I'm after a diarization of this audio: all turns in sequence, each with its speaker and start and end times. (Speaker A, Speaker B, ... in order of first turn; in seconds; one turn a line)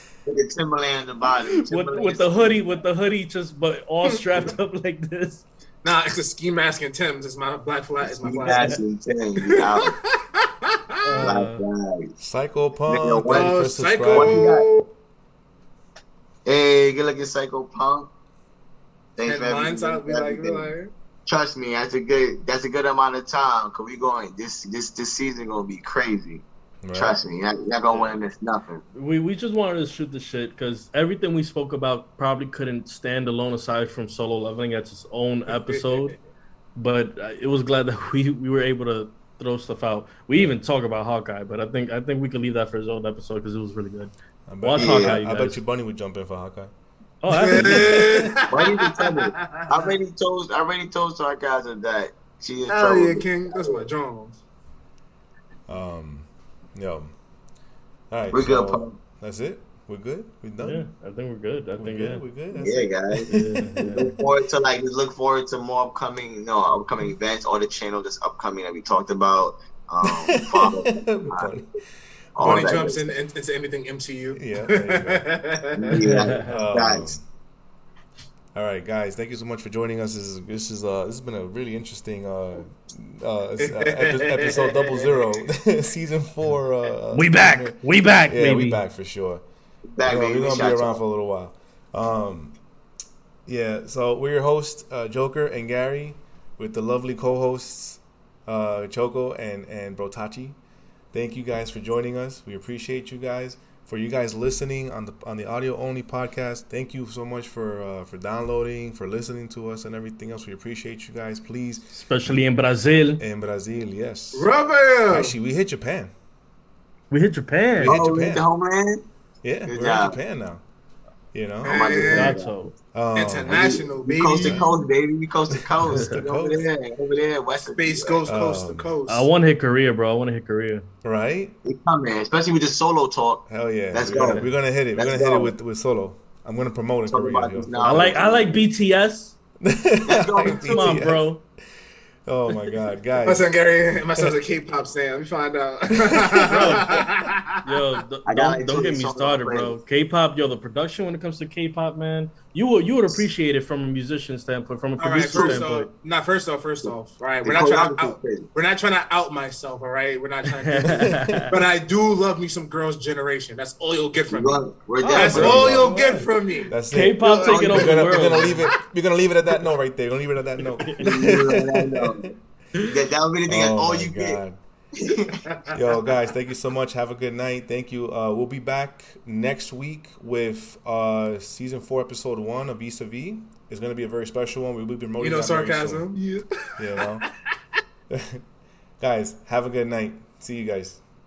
Speaker A: 0.2-2.6
Speaker B: 1.6-5.4
Speaker C: 4.0-4.5
Speaker C: 5.8-8.8
Speaker A: 8.2-9.9
Speaker B: 8.4-8.8
Speaker C: 9.4-11.3
Speaker B: 11.0-11.6
Speaker A: 11.1-12.1
Speaker D: 12.2-14.5
Speaker A: 12.9-13.6
Speaker C: 13.2-14.8
Speaker A: 14.1-14.7
Speaker A: 16.4-18.1
Speaker A: 19.2-20.7
Speaker C: 19.2-20.9
Speaker A: 21.2-28.8
Speaker D: 26.8-27.2
Speaker B: 28.9-36.1
Speaker C: 35.5-36.1
Speaker B: 36.8-44.1
Speaker D: 44.5-46.7
Speaker B: 44.6-45.6
Speaker A: 44.8-45.2
Speaker B: 47.2-48.3
Speaker C: 47.3-49.9
Speaker D: 47.5-48.0
Speaker A: 48.5-53.9
Speaker C: 52.7-54.4
Speaker D: 55.7-57.1
Speaker D: 58.1-60.8
Speaker A: 58.3-59.0
Speaker B: 60.6-62.2
Speaker D: 61.8-64.1
Speaker A: 62.5-71.5
Speaker B: 63.3-64.1
Speaker D: 70.0-71.7
Speaker A: 72.3-73.0
Speaker C: 72.4-75.9
Speaker D: 74.3-75.2
Speaker A: 75.7-77.1
Speaker B: 75.9-76.5
Speaker D: 76.4-77.2
Speaker D: 78.5-89.4
Speaker C: 83.6-84.7
Speaker B: 87.1-88.8
Speaker A: 89.9-91.0
Speaker D: 90.0-92.5
Speaker D: 93.5-100.6
Speaker D: 101.1-112.4
Speaker B: 111.9-113.2
Speaker D: 113.2-114.5
Speaker C: 114.3-115.3
Speaker D: 115.1-116.1
Speaker B: 117.1-118.0
Speaker D: 117.8-118.5
Speaker A: 117.8-119.0
Speaker D: 119.4-120.6
Speaker A: 119.7-120.2
Speaker D: 121.3-122.0
Speaker C: 121.6-122.4
Speaker A: 121.6-122.5
Speaker B: 122.1-122.7
Speaker D: 122.9-123.6
Speaker C: 123.1-124.6
Speaker A: 123.5-128.2
Speaker D: 124.4-124.7
Speaker D: 125.8-126.7
Speaker C: 127.5-129.3
Speaker D: 128.3-128.9
Speaker B: 129.1-130.8
Speaker D: 131.0-131.5
Speaker A: 131.6-134.4
Speaker D: 133.5-138.2
Speaker B: 134.1-134.5
Speaker A: 134.9-135.5
Speaker A: 137.1-138.7
Speaker B: 137.8-139.3
Speaker D: 139.6-141.3
Speaker A: 140.1-141.0
Speaker B: 140.6-141.4
Speaker D: 142.2-143.5
Speaker C: 143.2-147.7
Speaker D: 146.0-147.0
Speaker B: 146.5-147.0
Speaker B: 147.6-155.9
Speaker A: 148.2-149.8
Speaker C: 155.0-166.7
Speaker A: 157.4-158.5
Speaker B: 160.6-161.5
Speaker D: 160.8-161.5
Speaker A: 164.3-165.9
Speaker B: 165.0-165.9
Speaker D: 165.2-166.2
Speaker D: 166.7-172.3
Speaker B: 166.9-168.7
Speaker A: 167.4-168.3
Speaker B: 170.8-171.3
Speaker A: 171.0-172.3
Speaker A: 172.8-174.4
Speaker D: 173.5-174.6
Speaker A: 174.9-175.4
Speaker C: 175.4-175.7
Speaker D: 175.7-186.0
Speaker C: 185.2-186.8
Speaker D: 186.8-187.2
Speaker D: 188.1-188.4
Speaker D: 189.0-191.0